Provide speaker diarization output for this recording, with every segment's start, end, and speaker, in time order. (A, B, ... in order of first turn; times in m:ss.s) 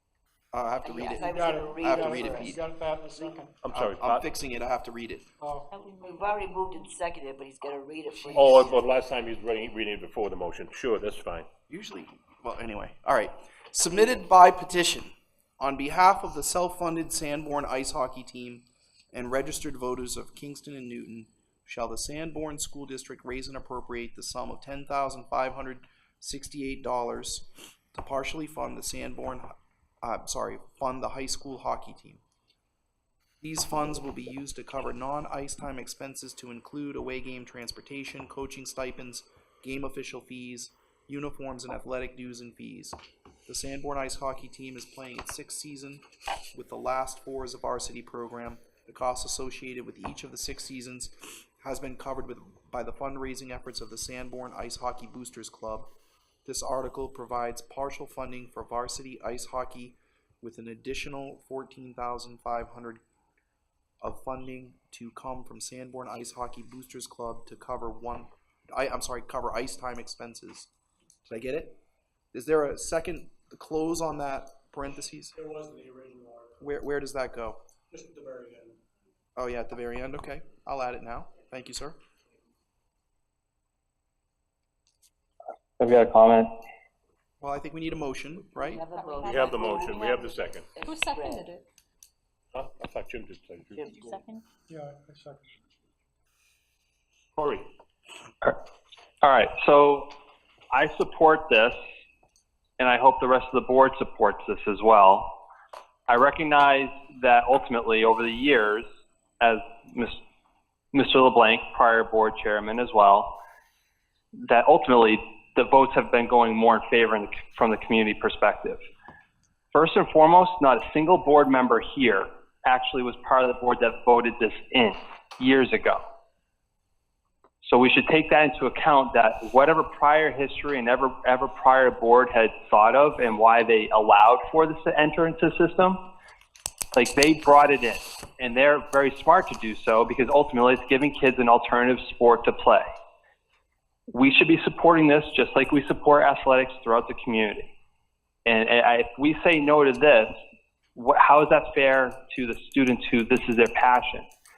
0:00.5-0:02.6 A
0:00.8-0:03.4 B
0:01.3-0:03.5 C
0:03.6-0:04.2 D
0:03.7-0:05.2 A
0:05.4-0:05.7 C
0:05.7-0:06.4 E
0:06.0-0:08.7 B
0:08.3-0:11.5 D
0:11.7-0:32.2 A
0:33.4-0:43.0 A
0:43.5-0:55.9 A
0:56.4-1:03.0 A
1:04.0-1:10.7 A
1:11.3-1:11.8 A
1:12.3-1:15.3 A
1:15.3-1:16.6 C
1:16.6-1:17.6 A
1:17.9-1:18.8 C
1:19.4-1:22.0 A
1:25.8-1:26.5 F
1:27.4-1:28.8 A
1:28.6-1:31.5 B
1:28.9-1:30.2 E
1:29.2-1:30.7 D
1:30.8-1:31.7 E
1:32.5-1:34.0 D
1:33.7-1:34.3 B
1:34.0-1:34.4 E
1:34.7-1:35.5 C
1:37.4-1:37.7 D
1:39.2-1:40.1 F
1:40.7-1:41.8 F
1:42.8-1:45.3 F
1:46.1-1:48.8 F
1:49.4-1:50.2 F
1:50.9-1:53.3 F
1:54.4-1:58.8 F
1:59.7-2:06.0 F
2:07.6-2:16.0 F
2:17.0-2:22.9 F
2:24.1-2:27.7 F
2:28.4-2:30.3 F
2:31.0-2:34.2 F